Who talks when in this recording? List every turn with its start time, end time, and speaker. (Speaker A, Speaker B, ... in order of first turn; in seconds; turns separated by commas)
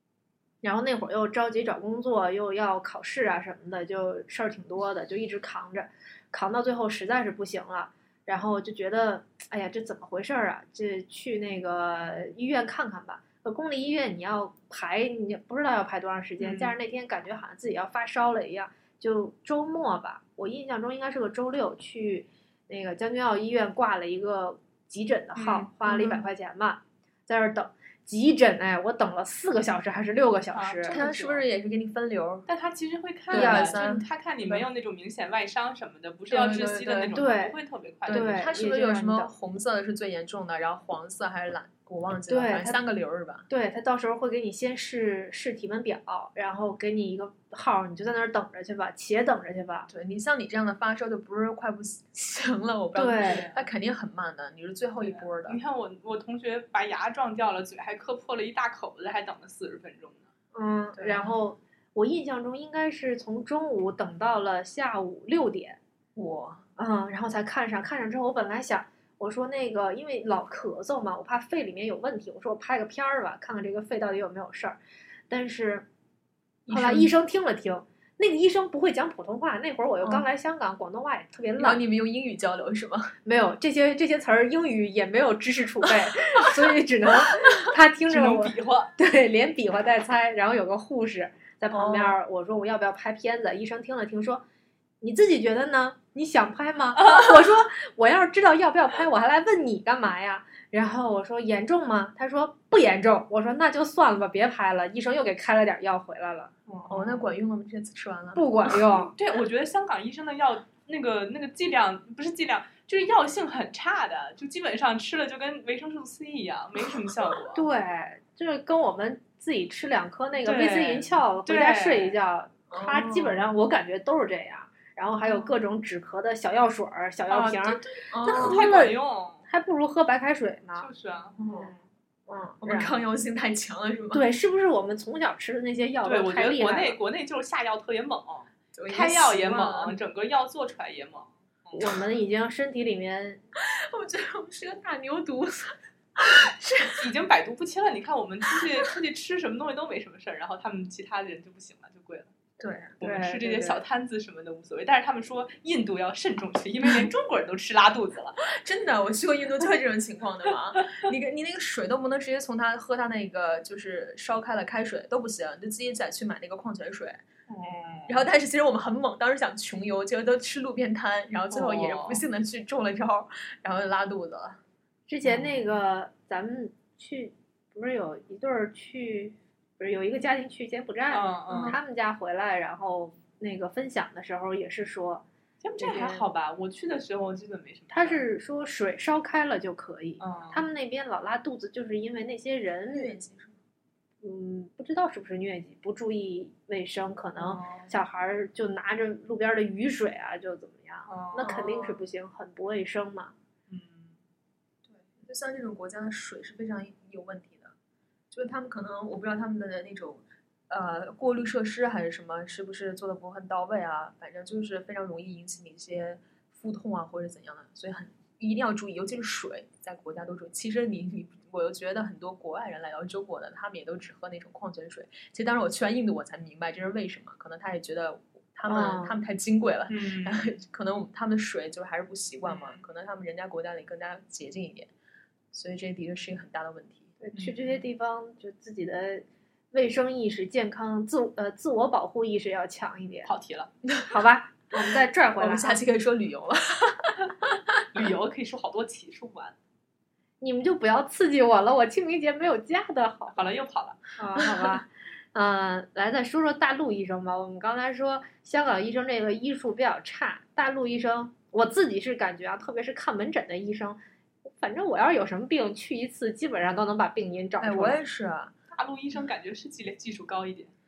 Speaker A: 0.6-31.0, Speaker B: 16.4-16.7, Speaker B: 25.3-25.7, Speaker C: 25.9-26.2, Speaker B: 30.5-31.4, Speaker C: 30.9-32.5, Speaker B: 32.5-38.5, Speaker C: 33.3-34.7, Speaker A: 33.3-33.8, Speaker C: 36.3-37.1, Speaker A: 37.1-37.5, Speaker C: 38.0-43.5, Speaker A: 38.1-39.3, Speaker A: 42.3-42.8, Speaker A: 43.5-49.9, Speaker C: 49.9-55.6, Speaker A: 52.9-53.5, Speaker B: 53.2-53.6, Speaker B: 55.0-60.3, Speaker A: 60.5-65.8, Speaker C: 61.0-61.2, Speaker C: 66.2-66.7, Speaker A: 66.8-74.8, Speaker A: 75.3-75.8, Speaker C: 76.7-77.1, Speaker A: 76.7-81.8, Speaker C: 81.6-83.2, Speaker A: 83.2-94.4, Speaker B: 88.1-88.9, Speaker C: 91.7-92.2, Speaker A: 95.0-106.5, Speaker B: 106.7-107.3, Speaker C: 106.9-108.7, Speaker A: 108.3-109.1, Speaker B: 109.0-117.6, Speaker A: 117.5-130.9, Speaker B: 120.4-122.2, Speaker C: 122.7-123.5, Speaker C: 125.2-125.5, Speaker B: 127.3-129.4, Speaker C: 128.1-128.6, Speaker B: 130.8-131.4, Speaker C: 131.4-131.7, Speaker A: 132.3-132.9, Speaker C: 132.6-134.2, Speaker A: 134.1-137.0, Speaker B: 136.0-141.8, Speaker C: 138.7-140.0, Speaker A: 141.7-143.4, Speaker C: 143.6-147.1, Speaker B: 147.0-152.3, Speaker C: 148.5-148.9, Speaker C: 152.6-153.0, Speaker B: 153.0-158.4, Speaker A: 153.0-153.8, Speaker C: 158.5-167.2, Speaker B: 167.5-168.2, Speaker C: 168.1-174.6, Speaker B: 171.5-172.2, Speaker A: 175.1-185.2, Speaker B: 181.1-181.8, Speaker C: 181.5-181.8, Speaker B: 185.6-188.2, Speaker A: 185.8-186.2, Speaker A: 187.9-193.1, Speaker B: 190.2-190.6, Speaker C: 192.9-193.6, Speaker A: 194.2-203.3, Speaker B: 197.4-197.9, Speaker B: 201.1-201.5, Speaker C: 201.4-202.0, Speaker B: 203.7-204.2, Speaker C: 204.8-207.7, Speaker C: 208.3-234.9, Speaker A: 228.7-229.1, Speaker B: 229.9-230.4, Speaker B: 232.4-232.8, Speaker C: 235.5-237.2, Speaker A: 237.2-243.3, Speaker B: 243.2-243.7, Speaker C: 243.9-244.1, Speaker A: 244.1-245.8, Speaker C: 245.4-248.0, Speaker B: 247.9-249.5, Speaker A: 250.4-253.4, Speaker B: 253.3-254.0, Speaker A: 254.2-268.0, Speaker C: 267.6-268.5, Speaker B: 268.7-270.7